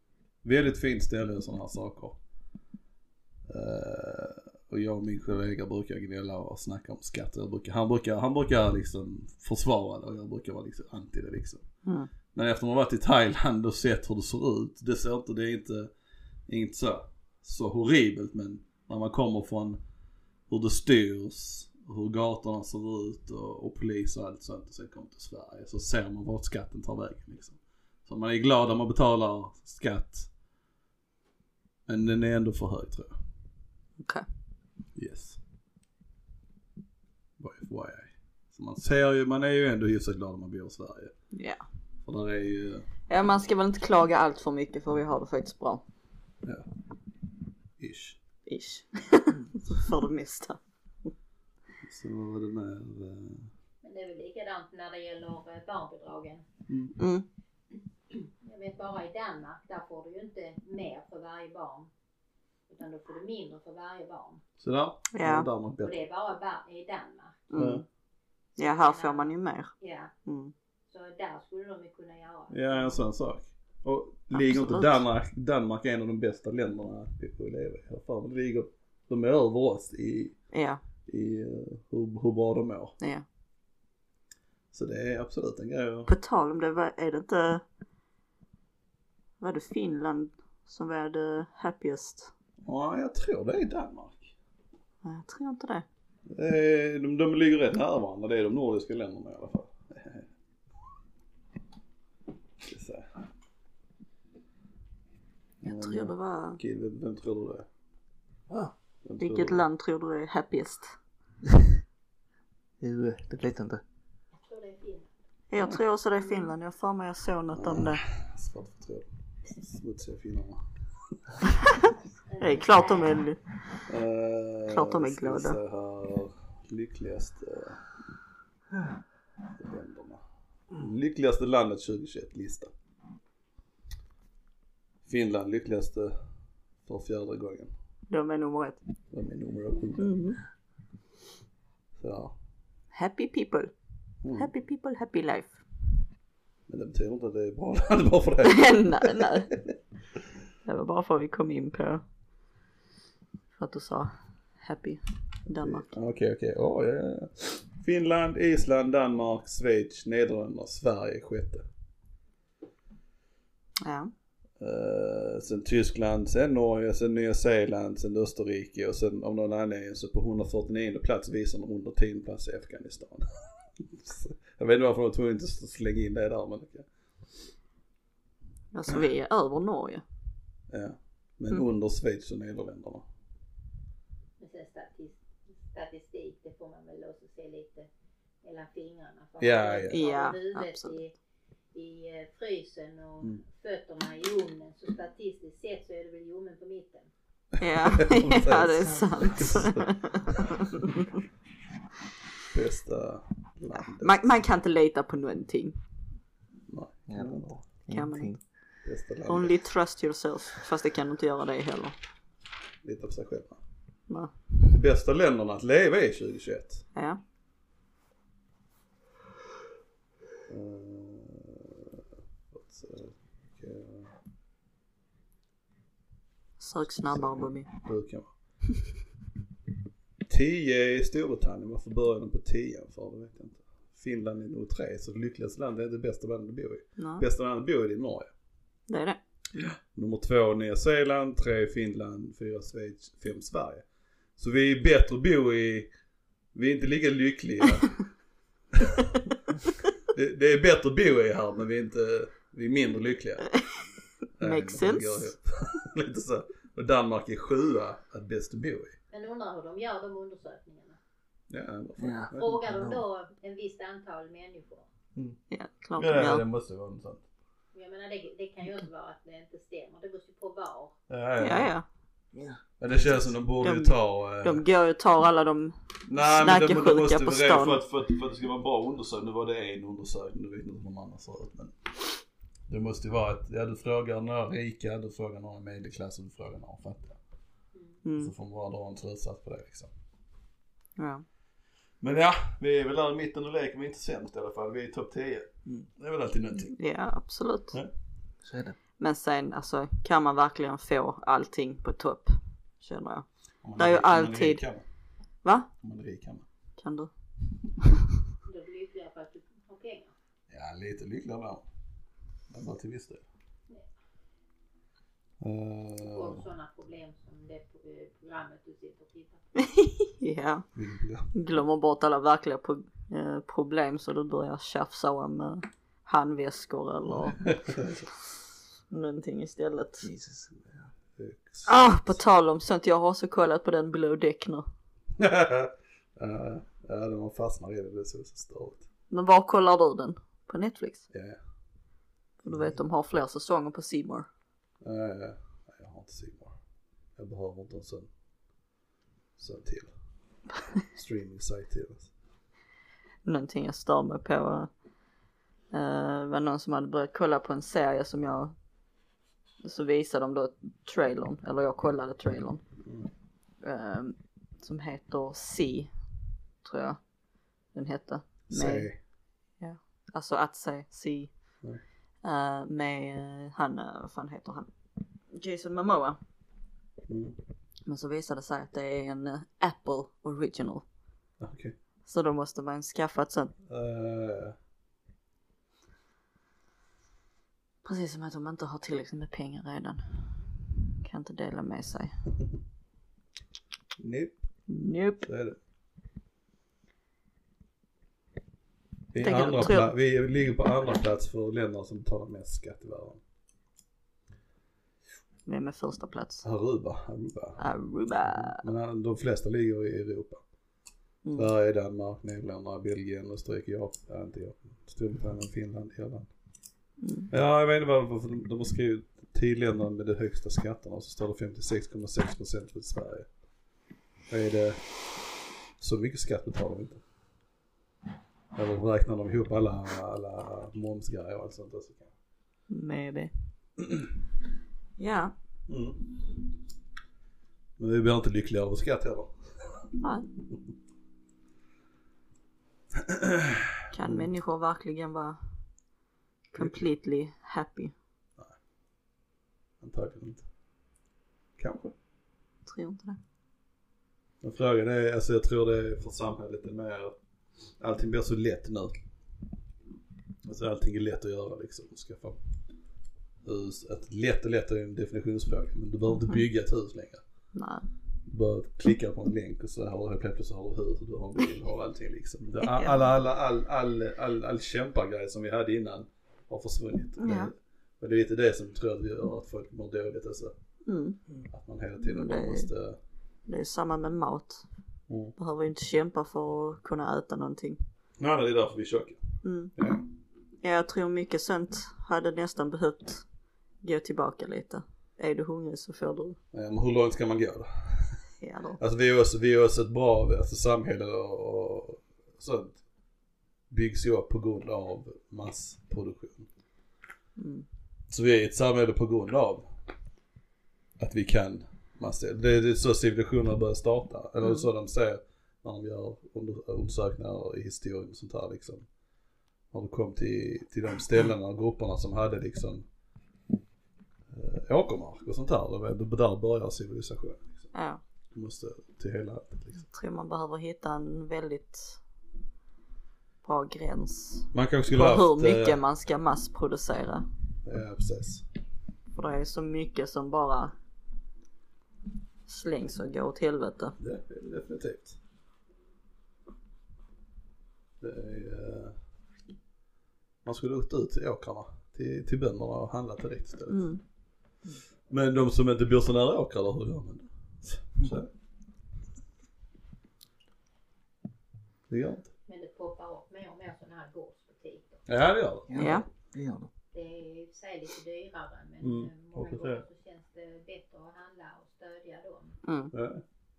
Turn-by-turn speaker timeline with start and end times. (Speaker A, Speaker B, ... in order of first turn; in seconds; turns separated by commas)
Speaker A: 0.4-2.2, Speaker A: 3.5-11.6, Speaker B: 11.8-12.1, Speaker A: 12.3-15.9, Speaker A: 16.5-19.8, Speaker A: 20.5-30.3, Speaker A: 31.9-33.1, Speaker B: 34.0-34.2, Speaker A: 34.9-35.4, Speaker A: 37.4-41.1, Speaker B: 41.3-41.6, Speaker A: 42.0-42.9, Speaker B: 43.1-45.8, Speaker A: 47.8-48.2, Speaker B: 48.5-51.1, Speaker A: 51.8-53.5, Speaker C: 53.8-56.4, Speaker A: 56.7-57.0, Speaker B: 57.0-57.2, Speaker C: 58.1-61.9, Speaker C: 62.7-64.4, Speaker A: 64.6-66.0, Speaker B: 65.1-65.5, Speaker C: 65.8-67.5, Speaker B: 67.5-67.8, Speaker A: 67.5-67.8, Speaker C: 68.6-70.1, Speaker B: 68.6-69.7, Speaker B: 70.2-70.5, Speaker C: 70.9-72.9, Speaker A: 72.5-80.3, Speaker B: 74.3-75.0, Speaker B: 80.5-80.8, Speaker A: 81.0-82.9, Speaker B: 83.0-83.2, Speaker A: 84.7-86.1, Speaker B: 86.1-87.6, Speaker B: 89.4-92.3, Speaker A: 92.6-94.3, Speaker B: 95.0-95.8, Speaker A: 96.3-100.2, Speaker A: 102.6-103.1, Speaker A: 105.6-107.7, Speaker B: 105.6-106.6, Speaker A: 109.0-109.6, Speaker B: 109.2-110.9, Speaker D: 112.8-113.8, Speaker C: 114.3-115.1, Speaker B: 115.5-118.0, Speaker A: 117.5-120.6, Speaker C: 122.3-123.1, Speaker B: 122.4-123.4, Speaker A: 123.9-127.8, Speaker B: 124.7-125.6, Speaker A: 129.6-130.2, Speaker A: 130.7-132.7, Speaker A: 135.0-136.2, Speaker A: 136.8-137.7, Speaker B: 138.1-138.8, Speaker A: 139.1-140.2, Speaker B: 140.0-140.4, Speaker A: 142.0-142.3, Speaker B: 142.9-143.7, Speaker A: 144.2-144.5, Speaker B: 144.3-145.6, Speaker A: 146.7-149.7, Speaker B: 148.4-149.5, Speaker B: 150.6-152.0, Speaker B: 153.6-155.9, Speaker A: 155.6-161.6, Speaker B: 163.8-164.1, Speaker A: 164.6-176.9, Speaker B: 178.7-180.0, Speaker A: 180.7-183.0, Speaker C: 184.4-187.9, Speaker C: 188.4-191.1, Speaker A: 189.4-190.0, Speaker B: 189.9-190.9, Speaker C: 191.7-197.1, Speaker B: 197.6-201.1, Speaker A: 197.7-200.4, Speaker A: 202.5-204.1, Speaker B: 203.8-205.8, Speaker A: 206.7-207.5, Speaker D: 207.1-208.4, Speaker B: 207.9-208.3, Speaker A: 208.8-209.5, Speaker B: 209.3-211.9, Speaker A: 212.8-213.6, Speaker A: 214.6-216.8, Speaker B: 216.9-217.2, Speaker A: 220.5-222.0, Speaker A: 222.5-224.1, Speaker B: 226.6-227.7, Speaker A: 226.9-228.3, Speaker A: 230.2-238.3, Speaker B: 237.0-237.2, Speaker B: 238.9-239.2, Speaker A: 239.5-243.8, Speaker A: 244.4-245.9, Speaker A: 246.5-247.9, Speaker A: 248.7-249.1, Speaker A: 250.1-253.5, Speaker A: 254.4-259.0, Speaker B: 254.4-255.3, Speaker C: 259.1-261.0, Speaker A: 261.5-262.6, Speaker D: 262.0-263.0, Speaker C: 262.3-264.9, Speaker B: 265.5-266.4, Speaker A: 266.0-267.2, Speaker C: 267.7-270.9, Speaker A: 271.1-271.7, Speaker B: 271.4-271.8, Speaker D: 272.3-272.6, Speaker A: 272.8-274.6, Speaker B: 273.6-277.8, Speaker A: 276.1-281.7, Speaker A: 282.7-287.2, Speaker B: 288.0-288.3, Speaker A: 288.2-289.9, Speaker B: 291.0-291.2, Speaker A: 292.0-296.8, Speaker B: 296.8-297.8, Speaker D: 298.4-298.7, Speaker B: 299.0-303.2, Speaker A: 303.6-304.8, Speaker B: 303.8-304.6, Speaker B: 305.4-305.7, Speaker A: 305.8-306.4, Speaker B: 306.8-307.1, Speaker C: 308.4-310.1, Speaker A: 310.5-311.6, Speaker A: 312.5-313.2, Speaker A: 315.4-316.4, Speaker C: 316.0-319.4, Speaker B: 319.6-320.6, Speaker A: 320.7-321.3, Speaker B: 321.3-327.5, Speaker A: 327.4-328.1, Speaker B: 328.9-330.1, Speaker D: 330.0-330.8, Speaker A: 331.2-332.2, Speaker B: 331.6-334.6, Speaker A: 335.2-338.8, Speaker B: 339.1-341.0, Speaker A: 341.1-341.4, Speaker B: 342.4-344.3, Speaker A: 344.8-346.5, Speaker A: 347.2-348.1, Speaker A: 349.4-349.9, Speaker A: 350.9-352.1, Speaker B: 353.2-354.7, Speaker B: 355.7-358.5, Speaker B: 359.6-362.6, Speaker B: 363.6-365.9, Speaker B: 366.6-367.0, Speaker B: 367.7-368.9, Speaker A: 368.5-369.0, Speaker B: 369.6-371.3, Speaker B: 372.2-374.7, Speaker B: 375.3-376.2, Speaker A: 377.1-377.4, Speaker B: 377.9-380.8, Speaker A: 381.4-381.7, Speaker B: 382.0-383.5, Speaker A: 383.7-384.6, Speaker B: 387.8-392.1, Speaker A: 394.0-394.4, Speaker B: 394.7-395.3, Speaker A: 395.2-395.6, Speaker A: 399.1-403.2, Speaker B: 399.2-399.9, Speaker B: 405.4-406.4, Speaker A: 406.4-407.6, Speaker B: 407.6-408.6, Speaker A: 408.3-410.4, Speaker A: 411.3-416.3, Speaker B: 417.0-417.3, Speaker A: 417.3-423.3, Speaker A: 424.3-424.8, Speaker A: 425.8-427.0, Speaker A: 428.5-432.1, Speaker B: 432.7-433.3, Speaker B: 435.0-435.3, Speaker A: 435.7-436.2, Speaker A: 437.8-439.3, Speaker B: 440.0-440.2, Speaker A: 442.9-444.3, Speaker B: 443.9-445.4, Speaker B: 446.5-447.9, Speaker A: 446.5-446.8, Speaker A: 449.8-450.4, Speaker A: 451.6-451.9, Speaker B: 452.6-453.2, Speaker A: 454.4-457.1, Speaker A: 457.8-459.0, Speaker A: 460.4-462.4, Speaker A: 463.4-467.2, Speaker B: 467.5-467.9, Speaker A: 468.2-480.5, Speaker B: 472.6-473.0, Speaker B: 477.2-477.5, Speaker B: 480.9-481.2, Speaker A: 481.5-483.0, Speaker B: 482.1-482.7, Speaker B: 483.5-484.6, Speaker A: 485.1-485.3, Speaker B: 485.4-487.8, Speaker A: 488.2-489.2, Speaker B: 489.4-489.7, Speaker A: 489.8-490.0, Speaker B: 490.6-493.2, Speaker B: 493.8-496.4, Speaker A: 496.5-498.2, Speaker B: 498.4-498.8, Speaker A: 498.8-502.8, Speaker A: 503.7-506.5, Speaker B: 507.4-507.6, Speaker A: 508.1-509.6, Speaker A: 511.0-518.9, Speaker A: 519.7-522.8, Speaker A: 524.3-527.7, Speaker B: 527.7-528.0, Speaker A: 528.3-529.8, Speaker B: 529.9-532.0, Speaker B: 533.4-537.2, Speaker A: 534.5-535.8, Speaker A: 537.6-538.4, Speaker B: 539.1-540.7, Speaker B: 542.5-543.9, Speaker A: 544.0-545.2, Speaker A: 548.0-549.0, Speaker A: 550.4-553.9, Speaker B: 553.7-554.0, Speaker A: 555.1-558.3, Speaker A: 561.9-562.3, Speaker C: 562.5-565.0, Speaker A: 565.1-566.0, Speaker D: 565.7-566.7, Speaker B: 565.8-566.0, Speaker C: 566.9-572.6, Speaker A: 568.8-569.8, Speaker B: 572.6-572.9, Speaker A: 572.9-573.2